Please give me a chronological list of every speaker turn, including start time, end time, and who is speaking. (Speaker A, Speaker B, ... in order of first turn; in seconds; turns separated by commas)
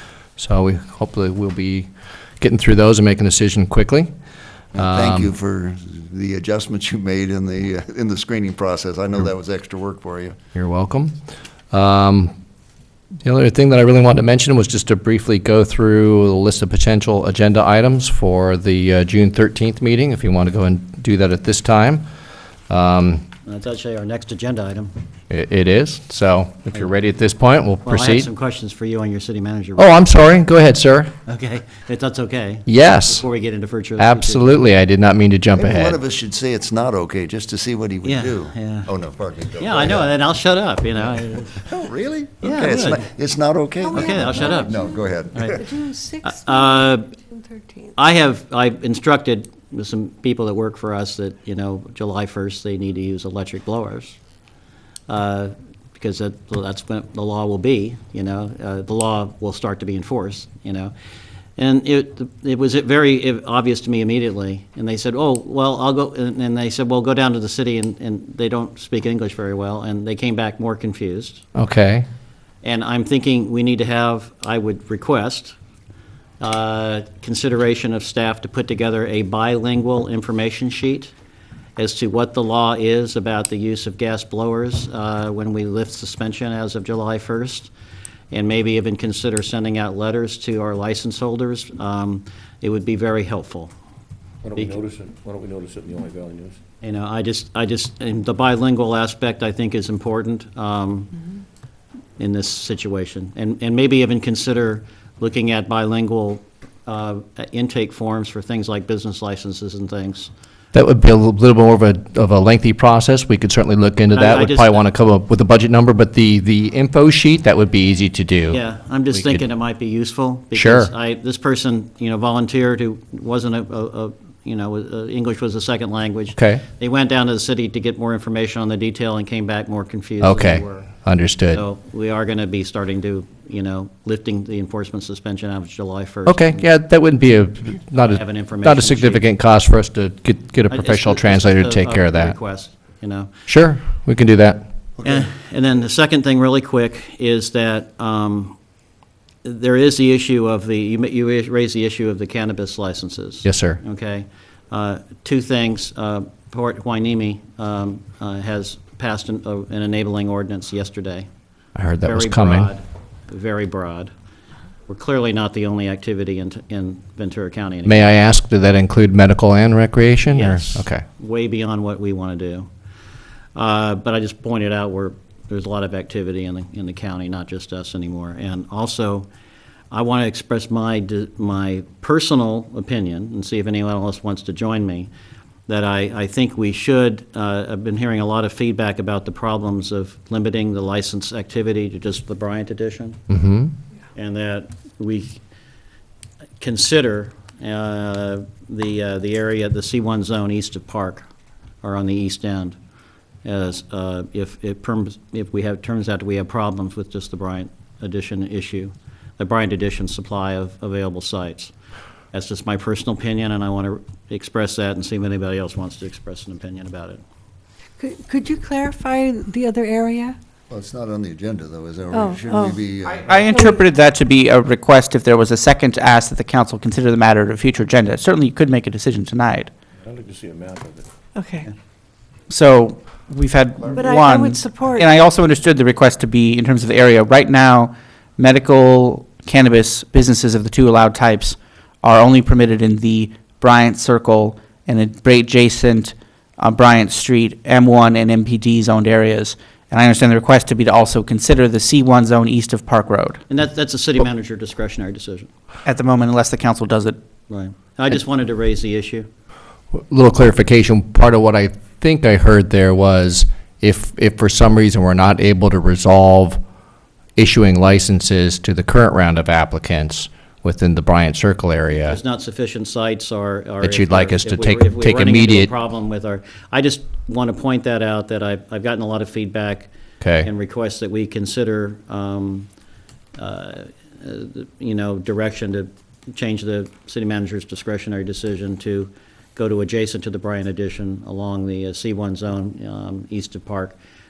Speaker A: 0.4-1.9, Speaker A: 2.4-4.1, Speaker B: 4.7-10.3, Speaker A: 4.7-5.3, Speaker A: 10.5-11.2, Speaker A: 11.7-12.3, Speaker A: 13.2-22.0, Speaker A: 22.7-23.2, Speaker C: 23.4-24.9, Speaker A: 25.3-28.3, Speaker C: 27.8-30.0, Speaker A: 29.8-31.1, Speaker C: 31.3-34.6, Speaker A: 32.6-33.2, Speaker A: 34.0-36.0, Speaker B: 35.5-40.1, Speaker C: 38.0-38.9, Speaker C: 39.6-41.7, Speaker B: 41.6-45.6, Speaker C: 42.4-43.1, Speaker D: 43.8-48.0, Speaker C: 43.9-45.7, Speaker C: 46.2-47.1, Speaker C: 47.9-54.2, Speaker C: 55.1-60.9, Speaker C: 61.6-71.4, Speaker A: 71.5-72.0, Speaker C: 72.6-75.5, Speaker C: 76.4-81.1, Speaker C: 81.8-87.7, Speaker C: 88.3-93.7, Speaker E: 94.4-96.6, Speaker C: 96.8-101.1, Speaker C: 102.2-110.3, Speaker A: 110.7-118.6, Speaker C: 114.1-114.8, Speaker C: 118.5-131.0, Speaker A: 119.1-119.4, Speaker A: 120.5-120.9, Speaker A: 126.3-126.6, Speaker A: 130.2-131.6, Speaker C: 131.5-136.7, Speaker A: 136.2-142.3, Speaker C: 138.1-139.2, Speaker C: 140.7-143.3, Speaker A: 143.5-144.6, Speaker B: 145.0-145.3, Speaker C: 145.0-148.5, Speaker C: 149.4-161.3, Speaker A: 153.4-153.8, Speaker A: 161.8-162.7, Speaker C: 162.0-164.1, Speaker C: 164.9-168.1, Speaker A: 167.8-171.0, Speaker C: 170.3-172.7, Speaker C: 173.6-179.3, Speaker C: 179.9-185.1, Speaker C: 185.7-193.2, Speaker A: 193.3-193.7, Speaker C: 194.1-195.4, Speaker C: 196.6-201.2, Speaker C: 201.8-202.7, Speaker C: 203.4-211.7, Speaker C: 212.3-217.2, Speaker D: 218.0-220.4, Speaker B: 220.7-223.3, Speaker D: 222.1-222.8, Speaker F: 223.1-229.7, Speaker D: 223.5-223.8, Speaker E: 230.0-231.1, Speaker D: 231.3-231.7, Speaker F: 232.5-253.4, Speaker D: 233.9-235.1, Speaker C: 253.5-255.5, Speaker F: 255.8-257.2, Speaker C: 257.5-259.2, Speaker A: 259.9-266.6, Speaker A: 267.4-272.2, Speaker C: 271.9-279.9, Speaker A: 273.8-275.7, Speaker A: 280.2-280.5, Speaker C: 280.4-282.7, Speaker C: 283.4-294.0